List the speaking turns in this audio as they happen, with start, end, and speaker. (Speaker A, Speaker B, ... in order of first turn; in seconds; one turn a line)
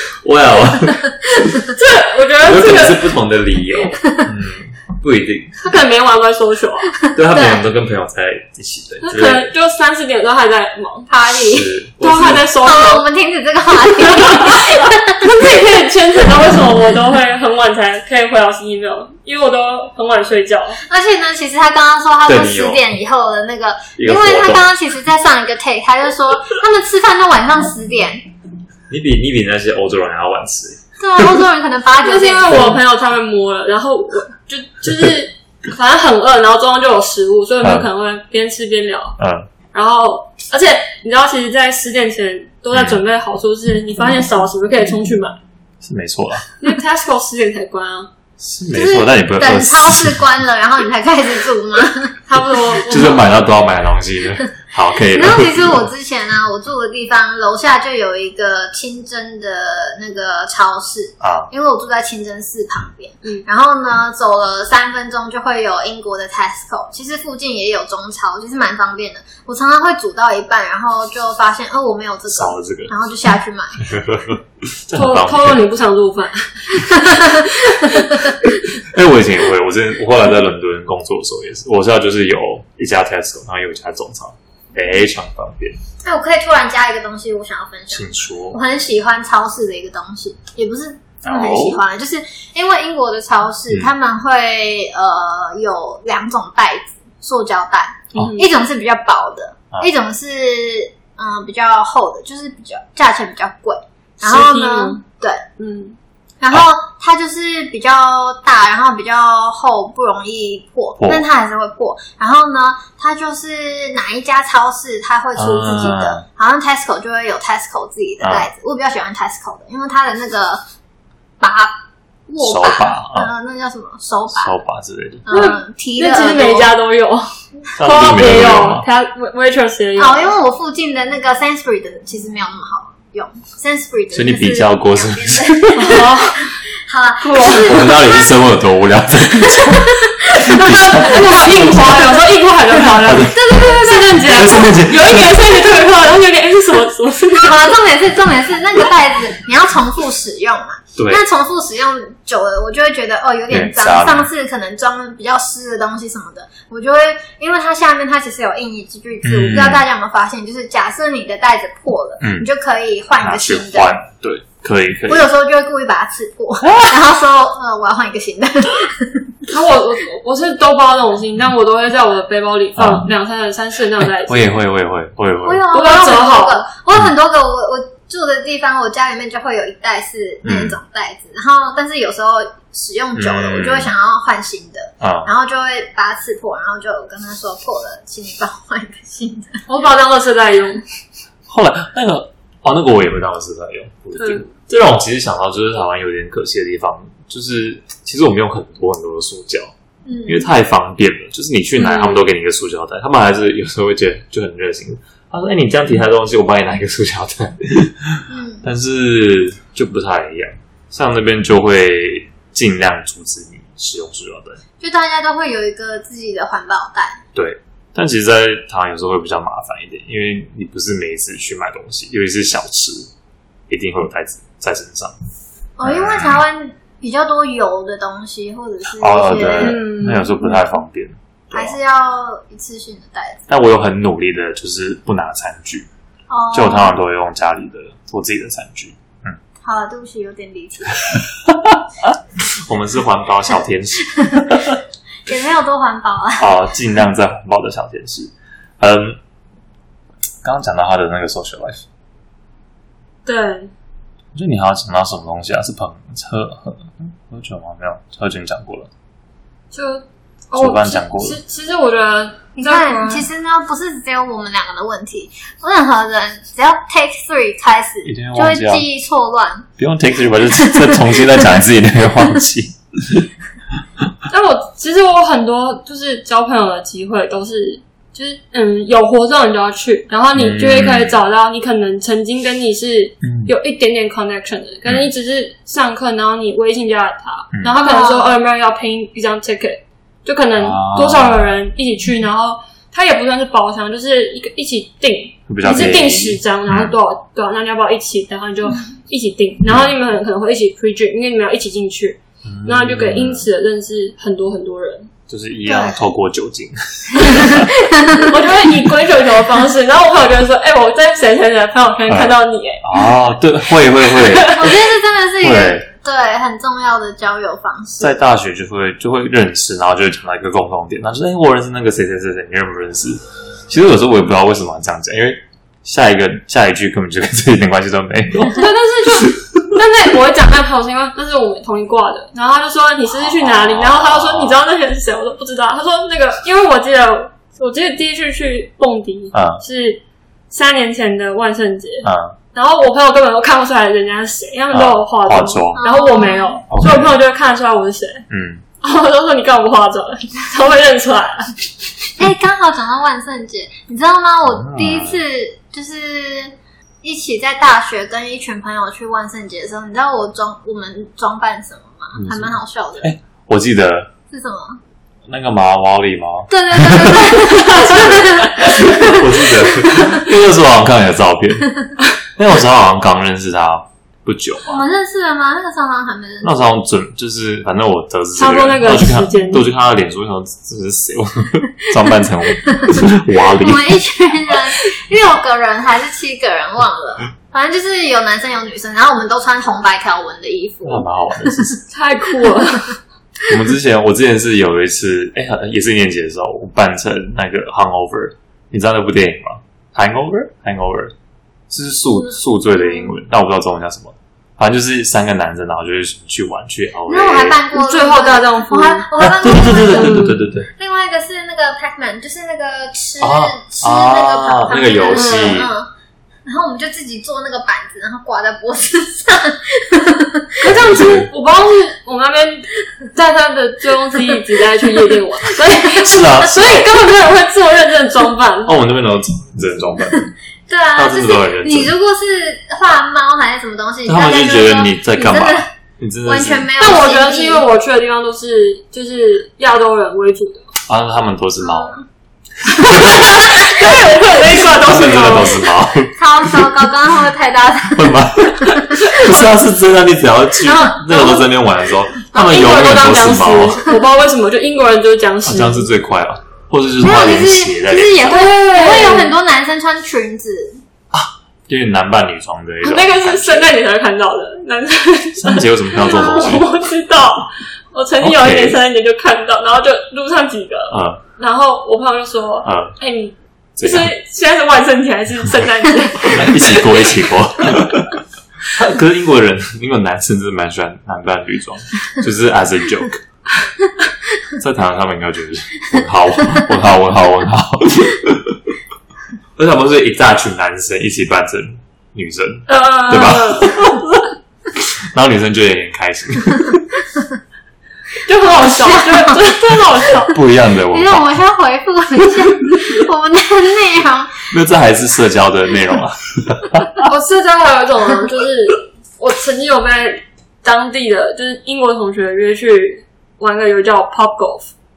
Speaker A: 0.1-1.6
Speaker B: 1.7-3.1
Speaker A: 2.4-5.6
Speaker C: 4.0-4.3
Speaker B: 5.6-6.9
Speaker C: 7.0-7.6
Speaker A: 7.1-9.5
Speaker B: 9.0-11.1
Speaker C: 11.1-11.7
Speaker A: 11.4-12.5
Speaker B: 12.0-13.0
Speaker C: 12.6-15.3
Speaker B: 14.1-20.8
Speaker C: 20.8-28.3
Speaker A: 22.2-22.8
Speaker A: 24.0-24.6
Speaker A: 28.9-30.8
Speaker C: 31.0-32.8
Speaker B: 32.0-39.2
Speaker A: 37.6-37.9
Speaker A: 39.2-39.5
Speaker B: 39.7-45.4
Speaker A: 42.7-43.0
Speaker A: 45.8-46.5
Speaker B: 46.6-48.1
Speaker A: 48.4-50.2
Speaker C: 48.7-52.2
Speaker B: 52.3-53.2
Speaker A: 52.9-55.9
Speaker C: 55.1-74.0
Speaker A: 61.2-61.5
Speaker A: 72.3-72.9
Speaker A: 73.9-75.6
Speaker B: 74.9-78.4
Speaker C: 76.9-78.3
Speaker A: 78.7-85.8
Speaker C: 86.0-105.4
Speaker A: 87.9-88.6
Speaker A: 91.2-91.8
Speaker B: 98.1-98.5
Speaker B: 104.2-105.0
Speaker B: 105.6-106.0
Speaker C: 106.4-120.6
Speaker A: 111.0-111.2
Speaker A: 115.4-116.2
Speaker A: 118.2-118.5
Speaker C: 121.4-124.6
Speaker A: 122.4-123.3
Speaker A: 124.3-125.2
Speaker C: 125.2-126.7
Speaker B: 125.3-130.3
Speaker A: 127.8-128.8
Speaker C: 130.0-136.2
Speaker A: 134.1-136.1
Speaker B: 135.8-136.6
Speaker C: 136.7-138.3
Speaker B: 137.2-137.8
Speaker A: 137.4-142.2
Speaker C: 139.4-141.2
Speaker B: 140.4-147.7
Speaker A: 142.8-145.5
Speaker C: 143.3-144.7
Speaker C: 147.3-163.9
Speaker A: 150.9-151.2
Speaker A: 153.5-154.3
Speaker A: 159.2-159.8
Speaker A: 162.2-162.5
Speaker A: 163.2-165.3
Speaker C: 165.1-169.3
Speaker A: 166.6-167.0
Speaker B: 169.5-174.5
Speaker A: 172.8-173.1
Speaker A: 174.2-175.6
Speaker C: 175.4-189.6
Speaker B: 175.7-176.7
Speaker A: 180.4-180.8
Speaker A: 183.2-183.9
Speaker A: 185.0-185.3
Speaker B: 189.7-190.8
Speaker A: 191.5-199.7
Speaker B: 194.2-194.5
Speaker C: 200.1-200.5
Speaker A: 200.2-214.6
Speaker B: 201.8-202.3
Speaker C: 208.3-208.6
Speaker C: 214.8-217.2
Speaker A: 217.3-223.1
Speaker A: 223.7-225.1
Speaker C: 225.8-229.8
Speaker A: 225.8-226.4
Speaker A: 229.0-231.8
Speaker B: 229.6-230.6
Speaker C: 231.5-233.5
Speaker A: 233.5-235.9
Speaker C: 236.3-236.9
Speaker A: 236.5-239.4
Speaker C: 239.6-241.2
Speaker A: 241.5-244.8
Speaker C: 244.1-244.4
Speaker C: 245.2-246.6
Speaker A: 246.4-249.2
Speaker A: 250.4-251.8
Speaker B: 253.2-253.7
Speaker A: 254.3-258.9
Speaker B: 259.7-263.3
Speaker A: 260.6-261.4
Speaker C: 262.6-269.7
Speaker A: 268.0-268.9
Speaker A: 269.8-273.3
Speaker C: 270.6-271.3
Speaker B: 274.3-305.1
Speaker A: 280.3-281.2
Speaker A: 283.2-283.5
Speaker C: 287.7-288.4
Speaker A: 290.6-291.5
Speaker A: 295.5-296.9
Speaker A: 299.6-299.9
Speaker A: 302.4-303.5
Speaker A: 305.3-307.7
Speaker C: 305.6-306.1
Speaker C: 307.2-308.3
Speaker B: 308.2-312.8
Speaker A: 312.1-314.8
Speaker B: 314.1-314.6
Speaker C: 314.5-318.2
Speaker A: 315.4-315.9
Speaker A: 318.0-329.6
Speaker B: 328.5-348.2
Speaker A: 333.2-334.6
Speaker A: 339.3-339.6
Speaker A: 342.0-342.4
Speaker A: 344.7-345.8
Speaker C: 345.7-346.6
Speaker A: 346.7-347.1
Speaker A: 348.3-348.6
Speaker B: 348.8-351.5
Speaker C: 352.2-363.1
Speaker A: 354.4-355.2
Speaker A: 362.1-364.1
Speaker C: 364.3-364.8
Speaker A: 365.3-374.9
Speaker C: 366.5-370.2
Speaker B: 367.7-367.9
Speaker C: 374.6-376.7
Speaker A: 376.4-384.0
Speaker B: 378.4-379.7
Speaker C: 382.7-383.0
Speaker C: 383.5-391.6
Speaker A: 390.8-391.8
Speaker B: 391.9-393.0
Speaker A: 393.4-401.1
Speaker A: 401.7-407.6
Speaker C: 402.1-403.1
Speaker C: 407.1-415.9
Speaker B: 407.7-409.1
Speaker A: 409.2-410.7
Speaker B: 409.8-410.4
Speaker A: 413.2-415.7
Speaker B: 415.1-415.6
Speaker C: 416.4-420.7
Speaker B: 420.6-428.8
Speaker A: 420.6-421.3
Speaker C: 425.7-426.2
Speaker A: 425.9-426.9
Speaker A: 428.6-430.3
Speaker C: 430.7-435.7
Speaker A: 430.9-431.9
Speaker A: 434.1-436.7
Speaker C: 436.2-437.6
Speaker B: 436.8-440.7
Speaker A: 440.9-442.0
Speaker C: 441.6-442.0
Speaker B: 442.6-445.7
Speaker A: 442.6-446.7
Speaker C: 446.1-449.4
Speaker A: 447.9-453.9
Speaker C: 450.6-451.5
Speaker B: 452.3-455.9
Speaker A: 455.4-458.5
Speaker C: 457.0-460.8
Speaker B: 458.2-459.3
Speaker A: 461.1-463.7
Speaker B: 462.8-477.0
Speaker A: 465.4-466.7
Speaker A: 468.2-468.8
Speaker A: 470.9-471.2
Speaker A: 472.6-472.9
Speaker A: 473.8-474.1
Speaker A: 476.2-483.2
Speaker A: 484.5-488.7
Speaker A: 489.6-494.0
Speaker B: 492.7-494.2
Speaker A: 494.8-496.9
Speaker B: 498.2-500.4
Speaker C: 498.5-499.5
Speaker A: 500.2-501.3
Speaker C: 500.9-504.5
Speaker A: 504.5-507.0
Speaker B: 507.0-514.7